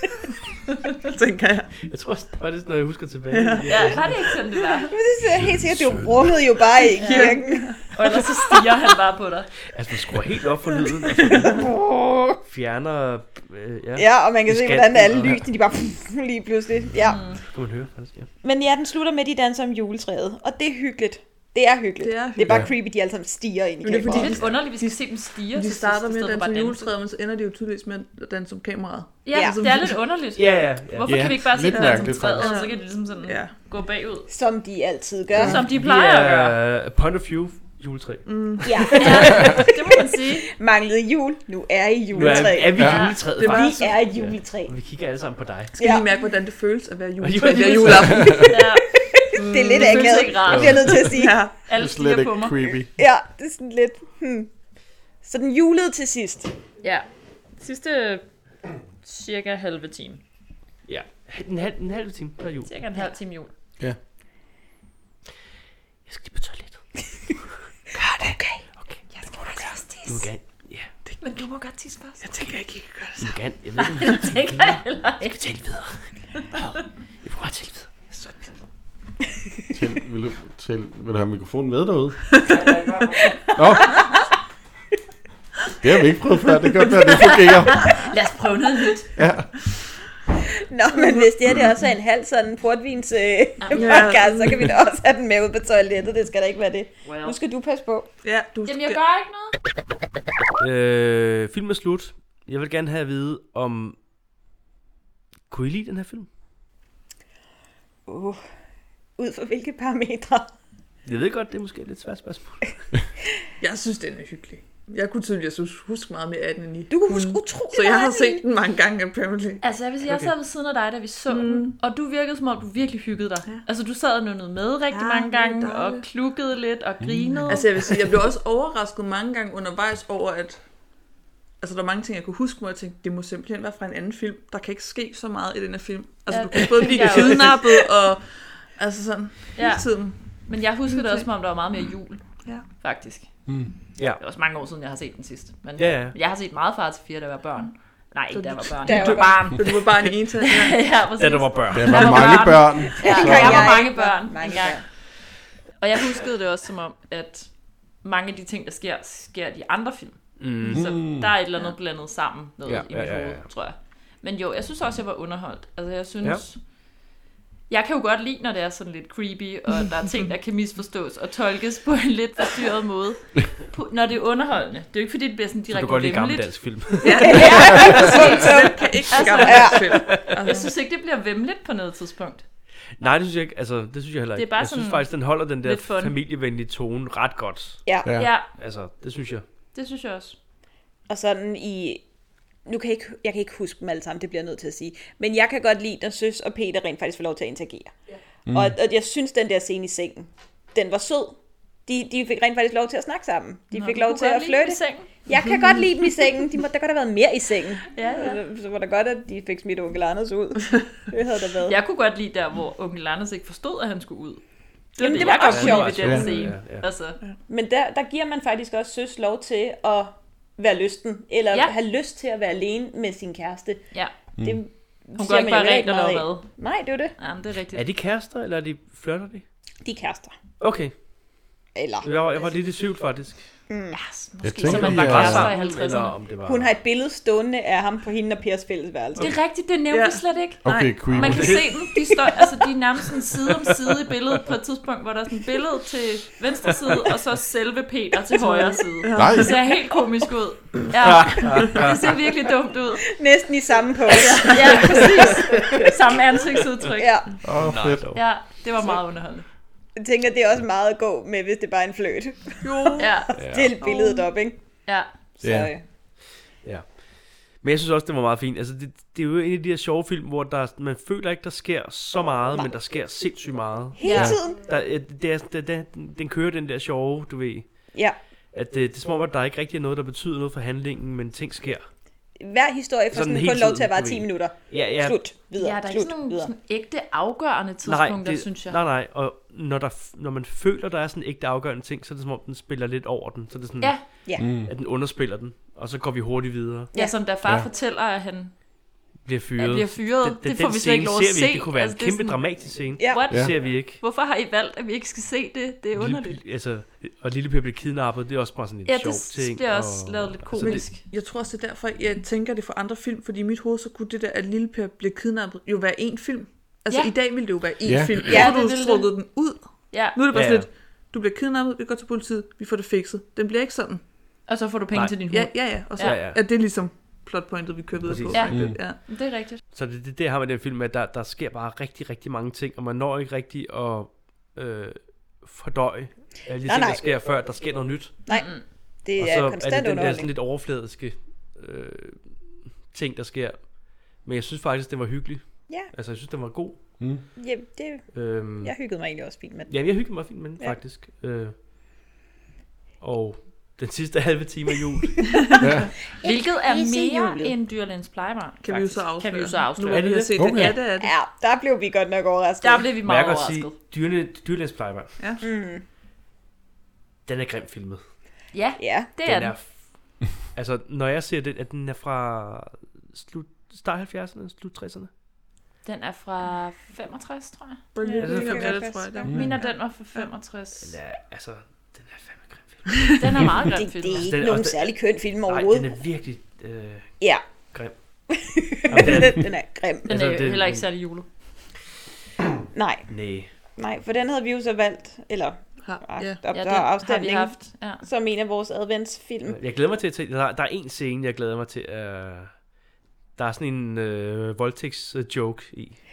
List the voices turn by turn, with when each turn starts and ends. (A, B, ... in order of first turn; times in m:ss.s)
0:00.9-0:01.7 A
0:01.8-0:04.2 B
0:03.3-0:04.9 A
0:03.7-0:04.9 C
0:04.9-0:07.7 D
0:05.4-0:06.3 E
0:06.9-0:07.8 A
0:07.0-0:09.5 C
0:09.7-0:11.6 B
0:11.5-0:12.4 D
0:12.4-0:15.4 B
0:14.0-0:17.3 D
0:17.0-0:17.4 C
0:17.5-0:18.3 B
0:18.4-0:24.4 D
0:22.0-0:22.7 A
0:23.8-0:30.0 A
0:24.1-0:26.9 C
0:29.2-0:34.3 C
0:29.3-0:29.6 D
0:30.4-0:31.2 B
0:31.0-0:32.5 E
0:31.7-0:33.5 A
0:34.3-0:35.6 D
0:35.4-0:36.6 C
0:35.7-0:39.5 B
0:38.2-0:38.7 A
0:38.6-0:44.7 D
0:39.0-0:40.4 C
0:42.1-0:45.7 B
0:42.8-0:43.2 C
0:43.3-0:43.9 A
0:45.7-0:48.6 A
0:45.8-0:46.1 D
0:47.2-0:48.5 B
0:48.5-0:51.1 C
0:49.1-0:51.4 D
0:49.7-0:50.3 A
0:51.0-0:51.5 A
0:51.6-0:52.7 C
0:51.7-0:52.9 E
0:53.0-0:54.5 D
0:55.2-0:56.5 D
0:56.8-0:57.1 C
0:57.6-0:58.2 C
0:59.0-1:00.2 C
1:00.9-1:02.7 B
1:02.6-1:03.5 C
1:06.1-1:06.8 B
1:08.0-1:08.4 A
1:09.4-1:10.1 C
1:10.1-1:10.9 B
1:11.2-1:12.3 C
1:12.2-1:13.3 A
1:13.2-1:15.9 B
1:14.0-1:15.4 C
1:17.2-1:18.1 B
1:19.7-1:22.2 E
1:22.4-1:23.2 A
1:23.6-1:24.0 E
1:25.8-1:28.0 E
1:27.1-1:29.1 C
1:29.2-1:29.5 E
1:30.6-1:38.1 D
1:30.9-1:31.2 A
1:33.6-1:34.1 C
1:33.7-1:34.7 A
1:37.0-1:37.4 C
1:38.2-1:39.0 A
1:38.6-1:39.5 C
1:40.6-1:44.0 B
1:45.5-1:46.3 B
1:48.1-1:48.4 D
1:49.2-1:50.5 D
1:51.0-1:52.7 B
1:53.6-1:59.6 A
1:56.9-1:58.4 D
1:59.6-2:07.7 C
2:00.0-2:00.3 B
2:01.3-2:01.8 A
2:04.9-2:06.0 A
2:07.0-2:07.4 E
2:07.4-2:10.6 A
2:11.6-2:20.2 A
2:16.3-2:17.6 C
2:16.9-2:17.4 B
2:19.6-2:19.8 C
2:20.4-2:22.2 C
2:20.9-2:21.3 A
2:22.8-2:23.3 C
2:24.2-2:29.8 C
2:25.8-2:26.1 B
2:28.3-2:30.8 A
2:28.9-2:29.3 D
2:30.4-2:34.8 C
2:31.2-2:32.4 B
2:31.7-2:33.8 E
2:33.0-2:34.8 D
2:35.8-2:37.5 C
2:38.0-2:46.6 C
2:40.4-2:40.9 B
2:40.7-2:41.3 E
2:42.6-2:43.4 B
2:47.7-2:56.5 C
2:55.7-2:57.5 B
2:57.0-3:00.7 A
2:57.0-3:02.4 C
2:57.2-3:00.0 D
2:59.9-3:00.3 B
3:03.0-3:07.8 B
3:04.4-3:06.1 C
3:07.8-3:08.1 D
3:08.0-3:08.3 E
3:08.1-3:08.5 C
3:08.6-3:09.4 B
3:09.7-3:10.4 C
3:11.1-3:12.0 D
3:12.6-3:17.9 D
3:18.5-3:18.8 E
3:18.5-3:31.8 D
3:23.7-3:25.2 C
3:27.9-3:28.4 C
3:31.7-3:34.4 C
3:35.0-3:37.2 C
3:35.0-3:36.3 D
3:35.2-3:36.8 B
3:37.5-3:43.8 D
3:44.4-3:47.1 D
3:45.2-3:46.5 C
3:47.2-3:47.8 C
3:47.7-3:49.4 B
3:49.8-3:50.3 D
3:50.6-3:50.9 B
3:51.7-3:52.5 D
3:52.0-3:53.4 B
3:53.7-3:54.0 D
3:54.0-3:56.2 C
3:54.4-3:55.5 E
3:54.6-3:56.7 B
3:56.4-3:59.3 D
3:59.2-4:13.1 C
3:59.9-4:01.0 A
4:00.6-4:01.6 E
4:01.1-4:01.6 B
4:08.3-4:09.8 A
4:09.1-4:09.5 E
4:11.0-4:12.2 B
4:13.1-4:15.9 D
4:14.1-4:17.4 C
4:14.8-4:15.8 B
4:17.0-4:17.3 D
4:17.4-4:18.0 E
4:17.6-4:18.2 B
4:18.1-4:19.4 C
4:20.0-4:24.6 D
4:22.6-4:23.2 A
4:23.0-4:23.3 C
4:23.4-4:23.7 B
4:23.8-4:24.2 A
4:25.4-4:25.8 D
4:25.4-4:25.7 E
4:26.6-4:37.7 B
4:34.0-4:34.6 D
4:34.0-4:34.4 C
4:38.5-4:41.9 B
4:42.4-4:46.5 D
4:43.1-4:45.2 B
4:45.6-4:48.8 C
4:47.8-4:56.9 B
4:54.4-4:54.7 E
4:56.9-4:58.5 C
4:57.4-4:57.7 E
4:59.2-5:04.0 B
4:59.6-5:06.4 C
5:03.0-5:03.3 D
5:06.0-5:10.8 B
5:08.9-5:11.0 C
5:10.6-5:24.0 A
5:17.8-5:18.2 E
5:18.3-5:18.7 D
5:18.3-5:19.1 C
5:19.9-5:20.2 C
5:20.3-5:20.7 B
5:24.5-5:26.2 C
5:25.3-5:29.0 A
5:26.0-5:26.4 B
5:28.0-5:28.7 B
5:28.3-5:29.6 C
5:28.5-5:28.8 E
5:29.7-5:38.2 B
5:36.6-5:37.2 D
5:38.2-5:40.3 D
5:38.3-5:38.6 C
5:39.2-5:42.3 B
5:42.9-5:46.8 B
5:47.4-5:49.7 D
5:48.1-5:48.7 B
5:49.7-5:51.5 B
5:53.0-5:55.2 B
5:55.3-5:55.6 A
5:55.6-5:55.9 E
5:56.2-5:57.5 D
5:56.2-6:00.2 C
5:58.6-6:01.1 A
5:59.9-6:00.3 B
6:00.4-6:00.8 E
6:00.9-6:02.9 D
6:02.6-6:03.7 C
6:03.0-6:05.1 B
6:05.4-6:05.8 D
6:07.2-6:08.0 B
6:08.5-6:09.5 C
6:08.8-6:09.1 D
6:09.2-6:09.8 B
6:10.5-6:15.1 B
6:15.8-6:17.8 C
6:17.9-6:20.3 A
6:18.0-6:19.3 D
6:18.2-6:18.8 B
6:19.2-6:21.0 C
6:20.8-6:23.0 B
6:23.2-6:24.3 C
6:23.7-6:26.0 D
6:24.2-6:27.1 B
6:28.3-6:30.1 D
6:28.9-6:29.5 B
6:30.0-6:30.8 B
6:30.0-6:31.2 C
6:32.7-6:33.1 D
6:33.1-6:33.5 B
6:33.8-6:39.6 D
6:35.8-6:36.4 A
6:36.5-6:38.0 C
6:39.5-6:42.5 B
6:43.4-6:46.0 B